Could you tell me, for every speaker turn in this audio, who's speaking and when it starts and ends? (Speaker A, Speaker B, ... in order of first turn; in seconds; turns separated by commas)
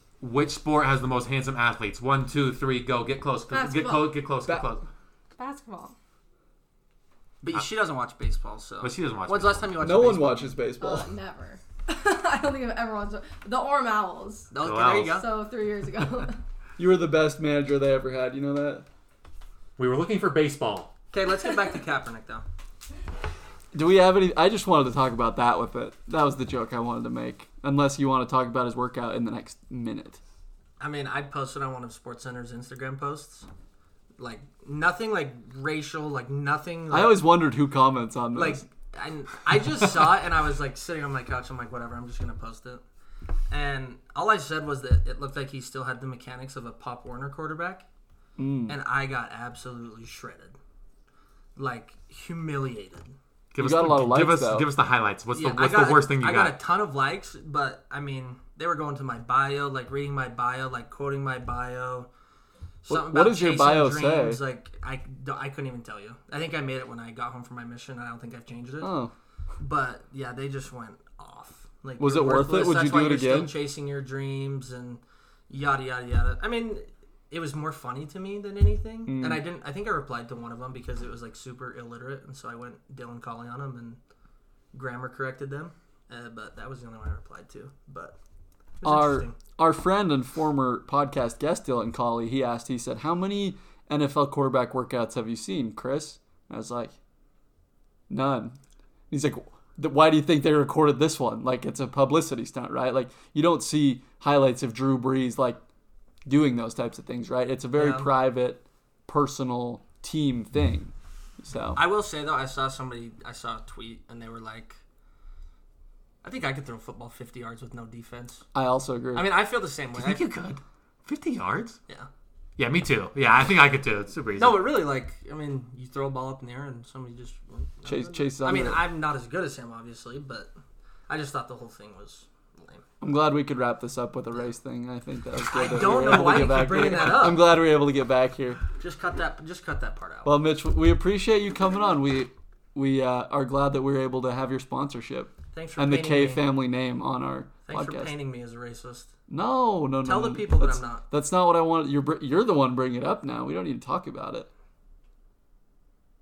Speaker A: 0.2-4.8, Speaker B: 3.5-4.1, Speaker B: 5.4-6.0, Speaker C: 7.4-10.6, Speaker A: 8.8-9.7, Speaker D: 9.8-11.1, Speaker B: 10.8-14.5, Speaker C: 14.5-15.3, Speaker A: 14.6-15.2, Speaker B: 15.1-16.4, Speaker D: 16.8-18.9, Speaker A: 19.8-20.9, Speaker C: 21.1-22.4, Speaker D: 23.7-30.2, Speaker C: 30.8-33.5, Speaker C: 34.2-37.3, Speaker D: 36.9-38.6, Speaker C: 38.4-42.8, Speaker C: 43.5-47.9, Speaker D: 48.4-48.8, Speaker C: 48.7-50.5, Speaker C: 51.6-53.1, Speaker A: 53.5-56.6, Speaker D: 53.6-54.7, Speaker C: 55.3-62.1, Speaker C: 62.9-68.9, Speaker D: 62.9-64.4, Speaker D: 68.8-69.1, Speaker C: 69.6-84.0, Speaker D: 72.0-73.5, Speaker D: 79.1-79.4, Speaker C: 84.7-88.2, Speaker C: 88.8-89.4, Speaker D: 88.8-96.9, Speaker D: 98.1-98.6, Speaker D: 99.1-105.6, Speaker D: 106.3-111.8, Speaker C: 107.8-108.1, Speaker C: 111.8-114.8, Speaker C: 116.2-118.5, Speaker D: 118.5-119.3, Speaker C: 119.1-120.2, Speaker A: 119.9-121.8, Speaker A: 122.6-124.7, Speaker C: 124.4-130.5, Speaker D: 127.8-128.8, Speaker C: 131.1-132.8, Speaker D: 133.0-138.6, Speaker C: 135.4-137.6, Speaker C: 138.8-140.3, Speaker D: 140.2-148.1, Speaker C: 145.5-146.4, Speaker C: 147.7-149.1, Speaker D: 149.3-154.5, Speaker C: 150.0-151.0